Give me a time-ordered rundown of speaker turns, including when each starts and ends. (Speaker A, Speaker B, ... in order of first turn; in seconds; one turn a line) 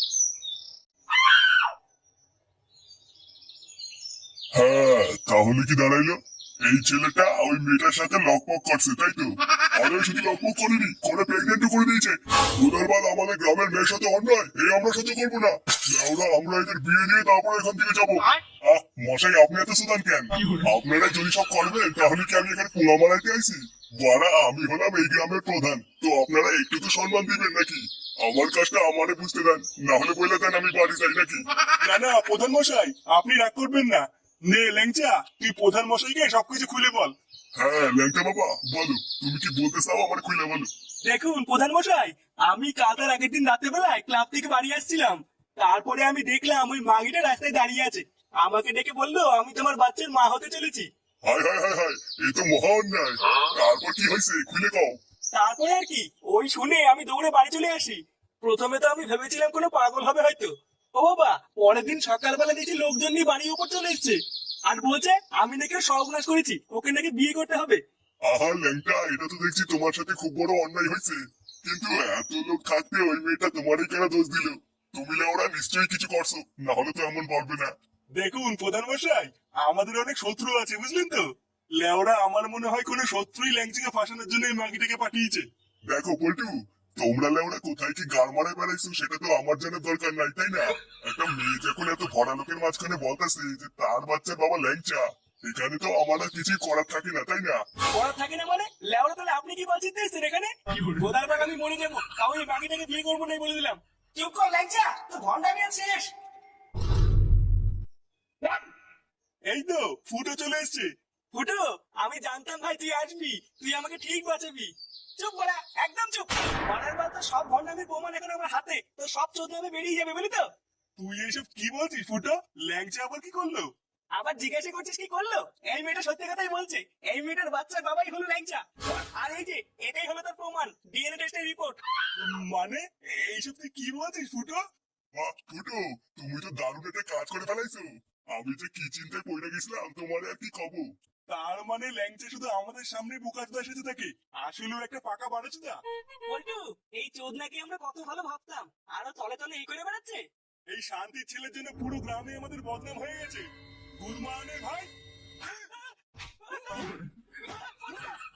Speaker A: 4.5-31.4
Speaker B: 31.8-37.1
Speaker A: 37.5-40.7
Speaker C: 41.0-50.9
Speaker A: 51.2-55.0
Speaker C: 55.3-67.8
Speaker A: 68.2-77.7
Speaker B: 78.1-85.5
Speaker A: 85.9-97.6
Speaker C: 97.9-106.1
Speaker B: 109.5-110.9
Speaker C: 111.3-120.5
Speaker B: 121.0-123.7
Speaker C: 124.1-131.8
Speaker B: 132.1-134.6
Speaker A: 135.1-140.9
Speaker B: 141.3-145.8
Speaker C: 146.2-150.2
Speaker B: 150.7-154.9
Speaker C: 155.5-156.9
Speaker C: 157.5-158.0